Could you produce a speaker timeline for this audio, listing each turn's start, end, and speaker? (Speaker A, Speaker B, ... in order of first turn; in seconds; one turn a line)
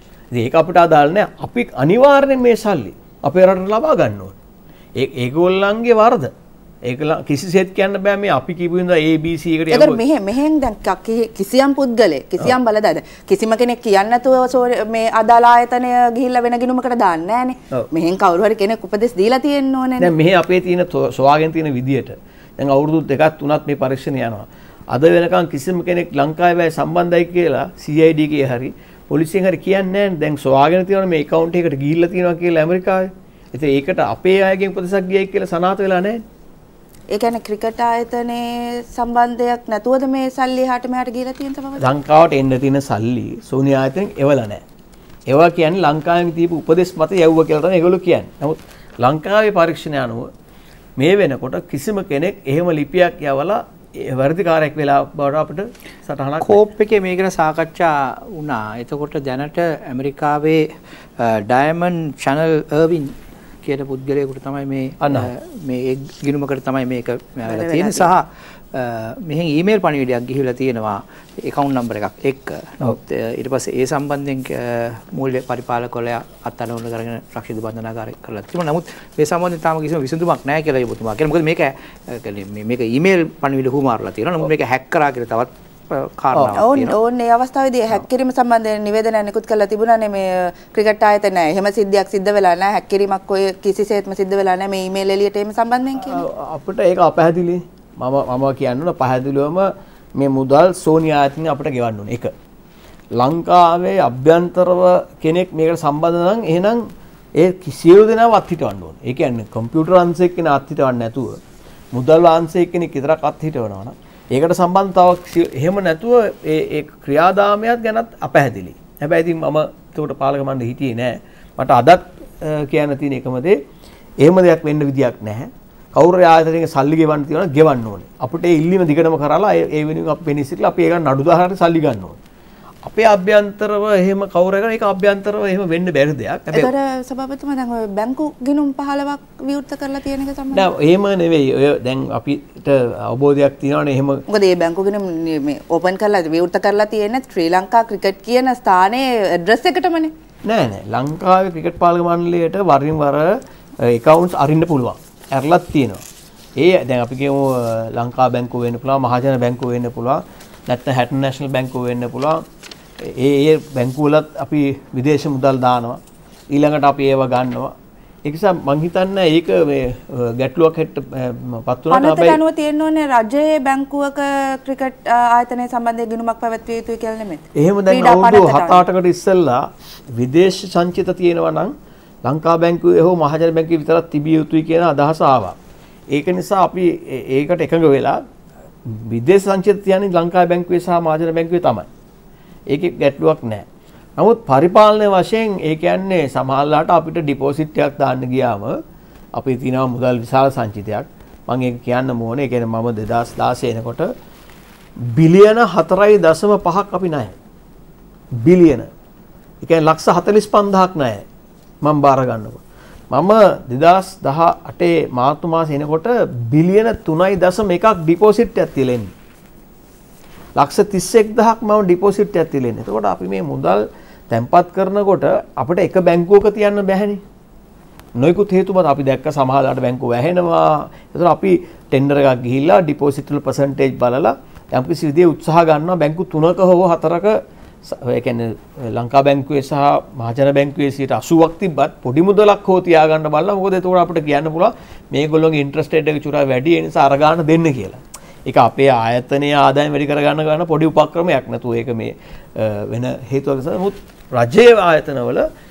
Speaker A: 0.3-4.4
Speaker A: 5.0-6.3
Speaker A: 6.9-10.0
Speaker B: 9.7-20.1
Speaker A: 20.0-36.2
Speaker B: 37.1-41.9
Speaker A: 41.8-44.6
Speaker A: 45.3-50.3
Speaker A: 51.0-56.6
Speaker C: 56.4-60.7
Speaker C: 61.2-87.0
Speaker A: 65.0-65.3
Speaker B: 67.5-68.1
Speaker B: 86.6-96.2
Speaker A: 95.9-102.3
Speaker A: 103.2-106.8
Speaker A: 107.4-111.4
Speaker A: 111.9-123.6
Speaker A: 124.2-132.2
Speaker A: 132.8-136.7
Speaker B: 136.5-140.7
Speaker A: 140.5-144.2
Speaker B: 144.3-150.1
Speaker A: 150.4-153.3
Speaker A: 153.8-156.0
Speaker A: 156.6-162.4
Speaker A: 163.0-166.0
Speaker A: 166.5-167.7
Speaker A: 168.2-172.4
Speaker B: 171.9-178.8
Speaker A: 177.6-181.7
Speaker A: 182.2-185.6
Speaker A: 186.1-188.2
Speaker A: 188.9-191.9
Speaker A: 192.7-193.7
Speaker A: 194.2-198.8
Speaker A: 199.3-204.1
Speaker A: 205.1-207.4
Speaker A: 208.4-208.9
Speaker A: 209.6-211.2
Speaker A: 211.8-219.1
Speaker A: 220.6-227.2
Speaker A: 228.2-255.5